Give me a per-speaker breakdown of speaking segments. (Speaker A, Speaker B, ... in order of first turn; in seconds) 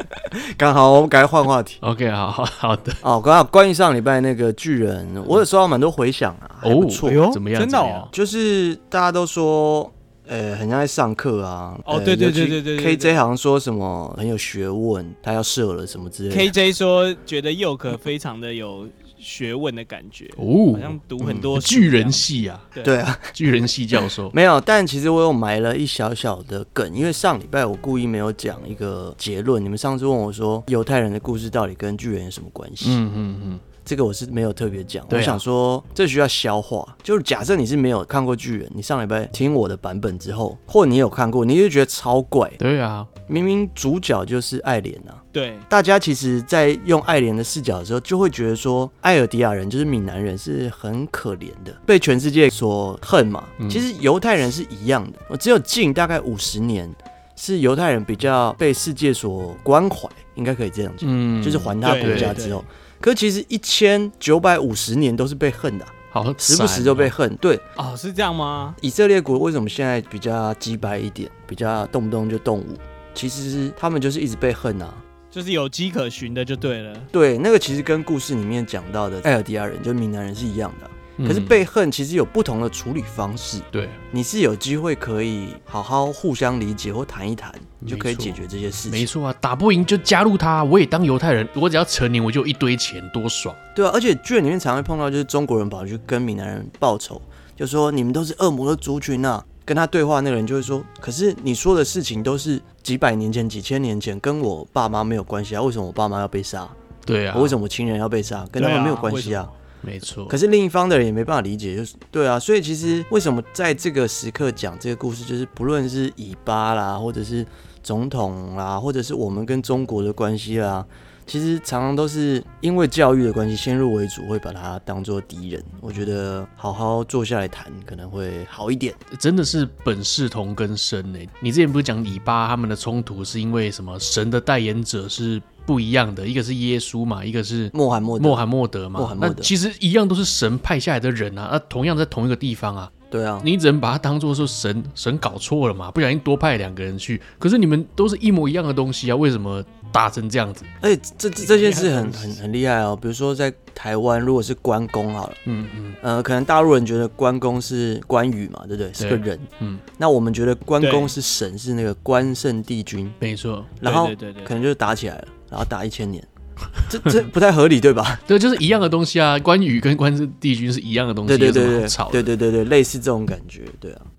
Speaker A: 0.2-1.8, 3.0-7.2, 8.1-16.5, 21.2-21.5, 22.8-23.3, 24.3-33.0, 33.8-42.6, 43.3-67.6, 68.8-75.0, 77.1-89.1, 93.7-106.8, 107.3-109.5, 110.3-129.0, 137.7-138.4, 138.9-139.5, 143.1-143.5, 150.8-155.4, 156.0-163.2, 163.8-166.3, 166.9-168.2, 171.3-174.1
Speaker B: 1.8-3.0, 6.6-8.1, 20.4-21.0, 21.5-22.7, 23.3-24.3, 32.8-33.6, 35.1-35.4, 42.6-43.1, 53.6-53.8, 61.0-62.4, 66.1-67.1, 81.2-81.6, 83.7-84.0, 87.8-93.6, 107.0-107.6, 109.8-110.4, 129.1-150.7, 155.4-156.0, 159.0-159.8, 163.2-163.7, 168.3-172.3
Speaker C: 7.0-8.1, 11.9-13.2, 16.3-23.0, 45.3-45.6, 61.8-62.6, 67.8-68.8, 75.3-77.1, 108.6-109.5, 151.4-152.3, 160.8-161.1, 163.8-164.6